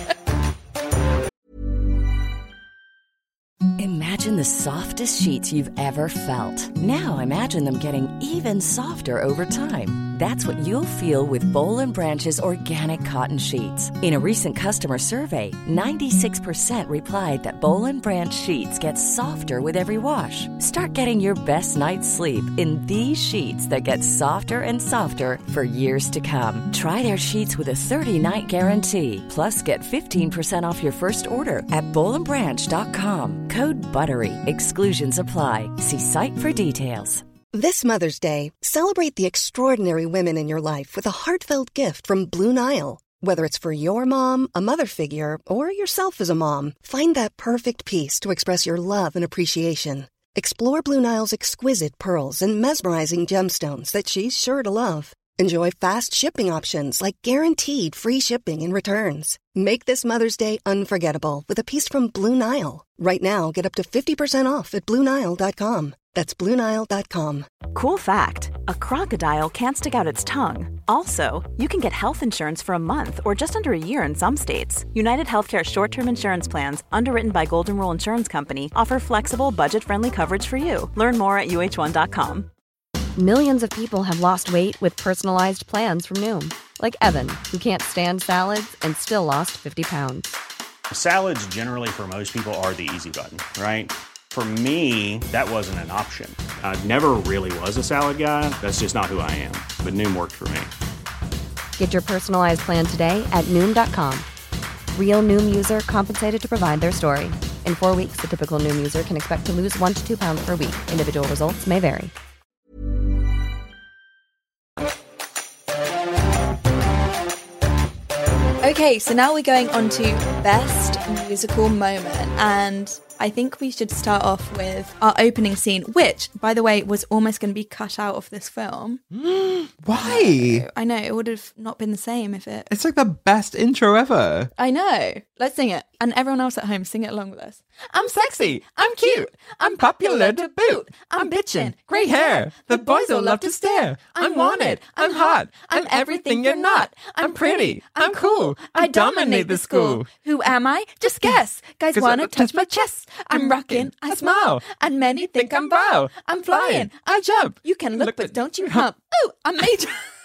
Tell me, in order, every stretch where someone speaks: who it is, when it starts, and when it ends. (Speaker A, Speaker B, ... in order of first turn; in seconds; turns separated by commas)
Speaker A: 3.8-37.2, Speaker B: 37.5-67.5, Speaker C: 67.7-82.5, Speaker D: 83.2-90.3, Speaker E: 90.9-100.7, Speaker D: 101.8-104.3, Speaker D: 104.9-112.1, Speaker F: 118.6-129.0, Speaker G: 129.1-130.7, Speaker F: 129.9-132.7, Speaker G: 132.7-134.5, Speaker F: 134.6-160.1, Speaker G: 138.0-150.1, Speaker G: 151.9-154.7, Speaker G: 155.2-158.9